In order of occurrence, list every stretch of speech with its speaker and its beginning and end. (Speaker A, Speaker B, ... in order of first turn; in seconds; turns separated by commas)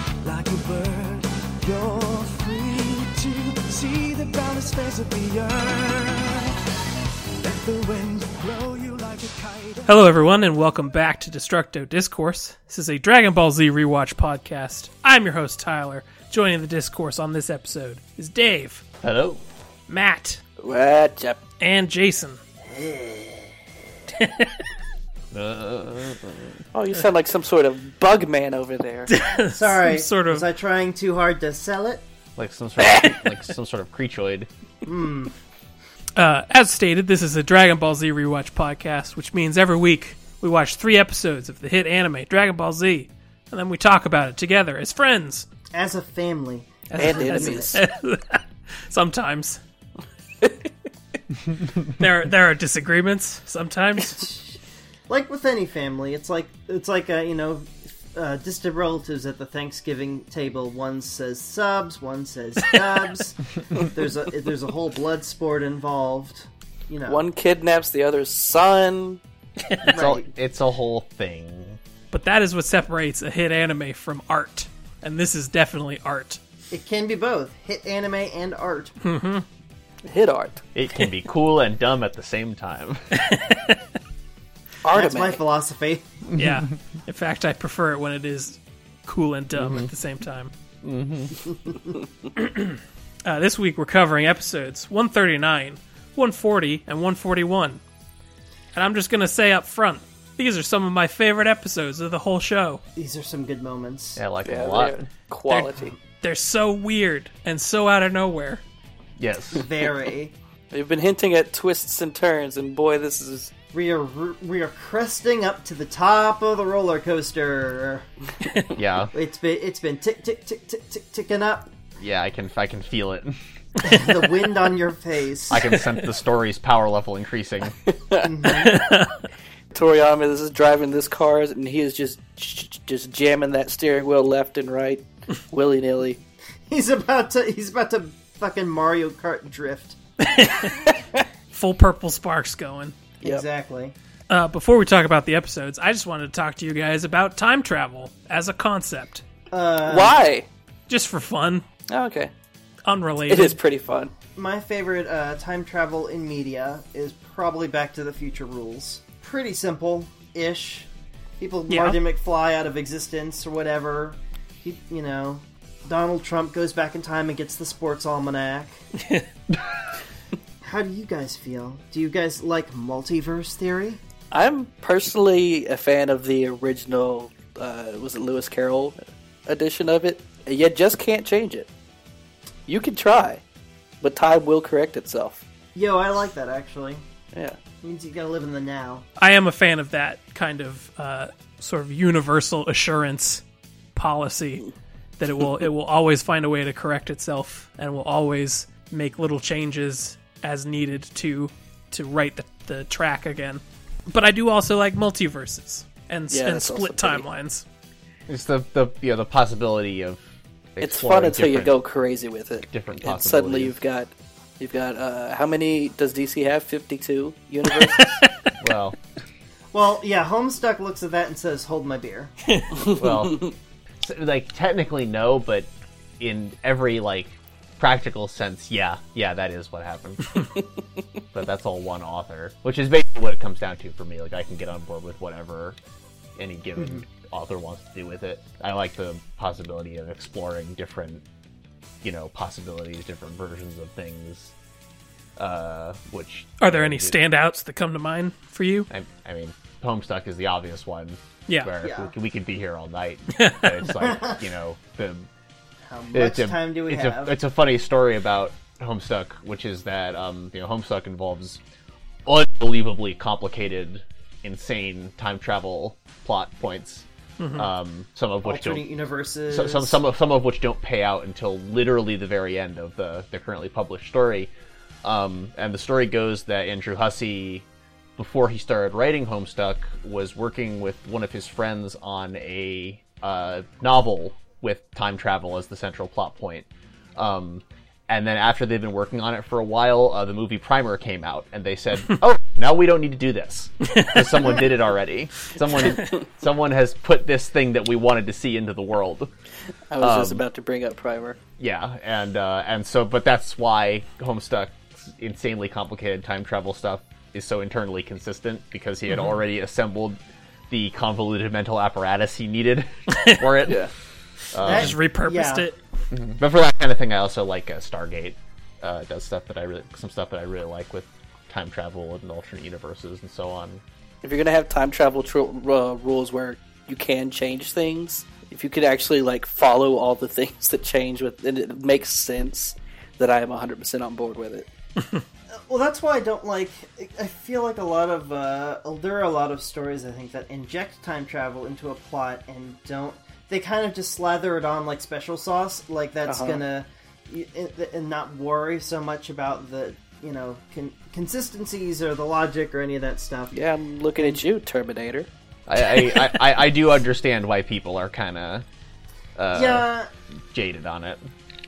Speaker A: 0.2-6.5, Speaker A: 7.4-10.0, Speaker B: 9.9-18.8, Speaker C: 19.0-19.4, Speaker B: 19.9-20.4, Speaker D: 20.6-21.4, Speaker B: 21.6-22.4, Speaker E: 22.7-23.5, Speaker B: 24.1-24.6, Speaker C: 25.3-26.6, Speaker D: 26.7-29.1, Speaker B: 29.1-30.5, Speaker E: 29.5-32.0, Speaker C: 32.4-34.5, Speaker E: 34.8-35.3, Speaker B: 36.2-45.5, Speaker E: 45.7-47.8, Speaker B: 46.9-49.6, Speaker D: 47.0-47.8, Speaker B: 51.9-54.3, Speaker E: 54.2-54.5, Speaker E: 55.1-67.2, Speaker D: 67.0-69.2, Speaker C: 69.8-71.8, Speaker E: 69.9-70.3, Speaker B: 72.1-76.4, Speaker E: 76.7-78.9, Speaker B: 79.0-79.4, Speaker D: 80.0-80.6, Speaker C: 80.7-83.0, Speaker B: 83.1-83.8, Speaker D: 84.8-85.4, Speaker E: 84.9-86.0, Speaker C: 86.3-86.6, Speaker B: 86.3-90.5, Speaker C: 89.5-89.9, Speaker C: 90.8-91.4, Speaker B: 92.3-97.8, Speaker B: 98.7-102.8, Speaker E: 103.0-104.2, Speaker C: 104.2-105.0, Speaker D: 104.4-105.9, Speaker B: 105.5-108.6, Speaker C: 109.2-109.7, Speaker E: 109.5-110.3, Speaker D: 110.7-113.5, Speaker E: 113.7-118.1, Speaker C: 118.8-119.1, Speaker E: 119.1-121.7, Speaker C: 122.0-123.4, Speaker E: 123.8-125.8, Speaker C: 125.5-127.8, Speaker D: 127.8-128.3, Speaker E: 128.2-128.9, Speaker B: 128.5-129.2, Speaker D: 129.7-136.2, Speaker E: 136.7-139.9, Speaker B: 140.2-140.9, Speaker B: 141.5-142.9, Speaker E: 143.2-143.9, Speaker B: 144.3-149.2, Speaker E: 149.5-150.2, Speaker D: 149.8-150.4, Speaker B: 150.9-151.6, Speaker D: 151.9-152.3, Speaker B: 152.9-153.6, Speaker D: 153.3-154.1, Speaker E: 154.3-168.8, Speaker B: 161.7-162.0, Speaker E: 170.6-174.0, Speaker D: 174.3-181.7, Speaker D: 182.7-183.4, Speaker D: 184.0-185.4, Speaker E: 185.8-187.0, Speaker E: 187.8-189.1, Speaker B: 189.2-193.4, Speaker B: 193.9-194.7, Speaker B: 195.2-207.6, Speaker D: 206.3-207.2, Speaker C: 208.3-210.2, Speaker C: 210.8-211.8, Speaker D: 210.8-218.1, Speaker C: 212.7-213.8, Speaker B: 217.8-218.3, Speaker C: 218.6-219.0, Speaker E: 219.7-222.3, Speaker B: 222.5-222.7, Speaker D: 222.8-223.5, Speaker C: 222.8-225.7, Speaker C: 226.2-230.5, Speaker C: 231.3-235.8, Speaker C: 236.4-241.2, Speaker E: 236.8-237.0, Speaker C: 242.0-244.5, Speaker C: 245.4-247.2, Speaker B: 246.6-248.9, Speaker C: 248.9-255.3, Speaker E: 251.8-252.1, Speaker B: 253.3-253.8, Speaker E: 254.0-254.4, Speaker E: 255.9-257.3, Speaker C: 256.1-261.6, Speaker C: 262.3-268.9, Speaker B: 267.4-267.7, Speaker E: 268.4-270.0, Speaker C: 269.5-274.5, Speaker C: 275.0-277.7, Speaker C: 278.2-299.3, Speaker B: 293.9-294.3, Speaker D: 299.9-301.4, Speaker C: 300.0-300.4, Speaker C: 301.6-310.2, Speaker C: 310.7-313.9, Speaker B: 313.1-313.5, Speaker D: 313.7-313.9, Speaker C: 314.5-314.9, Speaker B: 314.6-315.8, Speaker E: 314.6-315.7, Speaker C: 316.1-323.8, Speaker D: 324.2-334.7, Speaker E: 335.6-353.6, Speaker D: 346.3-346.6, Speaker D: 353.5-355.3, Speaker C: 355.7-358.7, Speaker C: 359.4-359.9, Speaker E: 359.5-360.1, Speaker C: 360.5-361.3